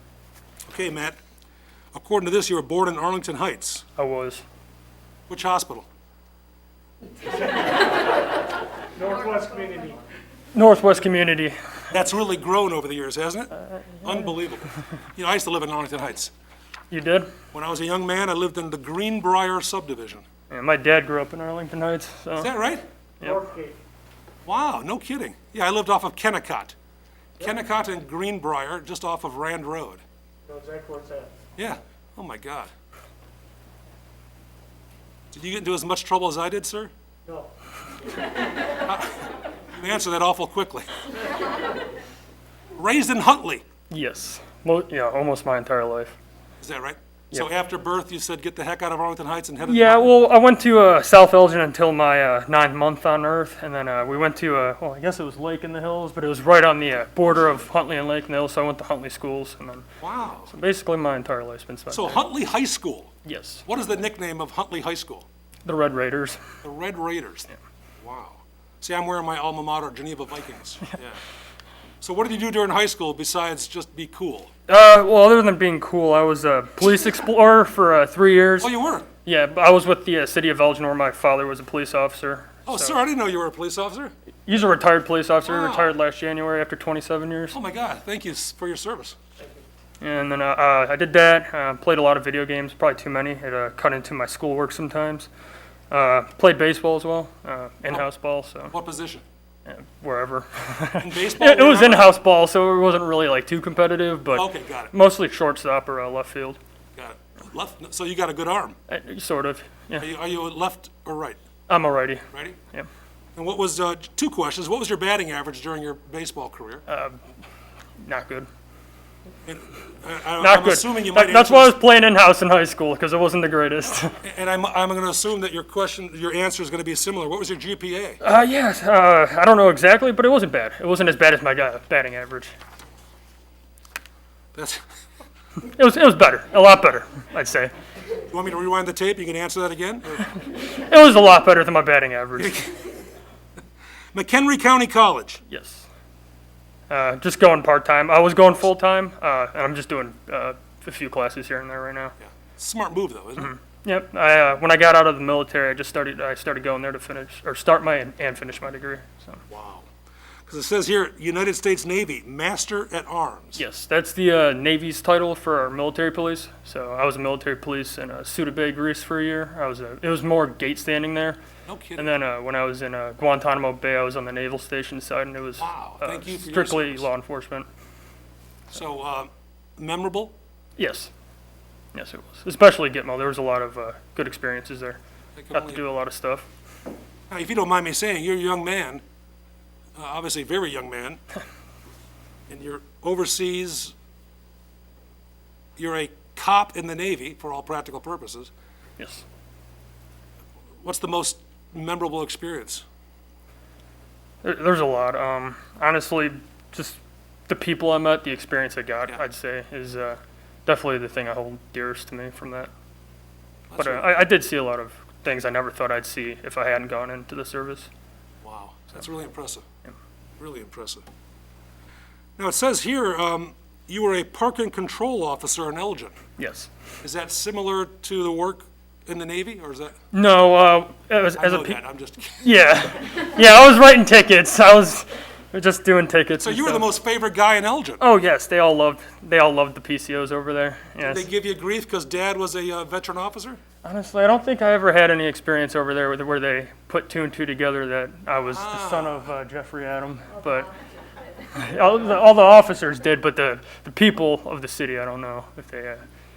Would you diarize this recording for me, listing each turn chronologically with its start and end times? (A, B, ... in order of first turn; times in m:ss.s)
0:00.6-0:01.2 A
0:01.9-0:03.8 A
0:04.0-0:04.4 B
0:05.3-0:05.9 A
0:07.3-0:08.0 C
0:08.9-0:10.0 C
0:10.5-0:11.6 B
0:11.9-0:16.3 A
0:13.5-0:14.3 B
0:16.9-0:17.3 B
0:17.5-0:20.2 A
0:20.5-0:22.5 B
0:22.4-0:22.8 A
0:23.2-0:23.5 B
0:23.2-0:23.8 C
0:24.4-0:26.8 A
0:27.4-0:30.0 A
0:30.4-0:31.4 C
0:31.6-0:32.7 A
0:35.3-0:36.9 A
0:38.8-0:40.9 A
0:42.7-0:43.6 A
0:43.9-0:46.2 B
0:46.6-0:50.1 A
0:49.6-0:59.8 B
1:00.0-1:00.5 A
1:00.5-1:02.2 B
1:01.9-1:03.1 A
1:03.2-1:03.6 B
1:03.7-1:05.2 A
1:05.6-1:06.4 B
1:06.6-1:11.2 A
1:12.0-1:14.5 A
1:14.7-1:18.7 B
1:18.6-1:19.1 A
1:19.2-1:23.0 B
1:22.6-1:24.1 A
1:24.5-1:27.6 B
1:25.4-1:26.0 A
1:27.5-1:29.2 A
1:30.0-1:35.3 B
1:35.9-1:38.7 B
1:38.7-1:39.2 A
1:39.6-1:46.6 B
1:41.0-1:42.1 A
1:44.3-1:44.9 A
1:47.0-1:48.8 A
1:48.9-1:50.1 B
1:50.0-1:51.4 A
1:51.7-1:52.9 B
1:52.3-1:52.6 A
1:53.4-1:56.8 A
1:56.9-1:57.2 B
1:58.0-1:58.5 B
1:59.4-2:01.8 A
2:00.4-2:04.2 B
2:04.2-2:08.2 A
2:08.2-2:12.5 B
2:14.5-2:14.8 A
2:15.6-2:17.7 B
2:18.3-2:20.3 A
2:20.4-2:22.7 B
2:22.4-2:22.7 A
2:24.1-2:25.4 A
2:25.5-2:25.9 B
2:26.9-2:32.1 B
2:32.3-2:33.5 A
2:33.4-2:39.4 B
2:39.5-2:39.9 A
2:40.4-2:43.6 A
2:43.6-2:51.4 B
2:51.6-2:52.1 A
2:52.0-2:57.7 B
2:55.6-2:57.1 A
2:58.7-3:00.3 A
3:00.8-3:01.1 B
3:01.9-3:05.0 B
3:05.4-3:05.8 A
3:05.5-3:06.5 B
3:07.3-3:09.0 A
3:10.0-3:11.2 A
3:12.5-3:13.9 A
3:15.8-3:18.5 A
3:19.0-3:19.2 B
3:20.8-3:22.8 A
3:24.4-3:32.7 B
3:33.7-3:34.1 A
3:33.8-3:37.9 B
3:38.4-3:39.6 A
3:40.4-3:41.0 A
3:42.4-3:46.2 A
3:46.4-3:46.7 B
3:47.0-3:50.0 A
3:50.1-3:51.8 B
3:51.4-3:52.5 A
3:52.4-3:56.9 B
3:56.4-3:58.0 A
3:58.0-4:01.3 B
4:01.0-4:03.6 A
4:03.8-4:10.7 B
4:08.5-4:09.3 A
4:11.5-4:16.0 B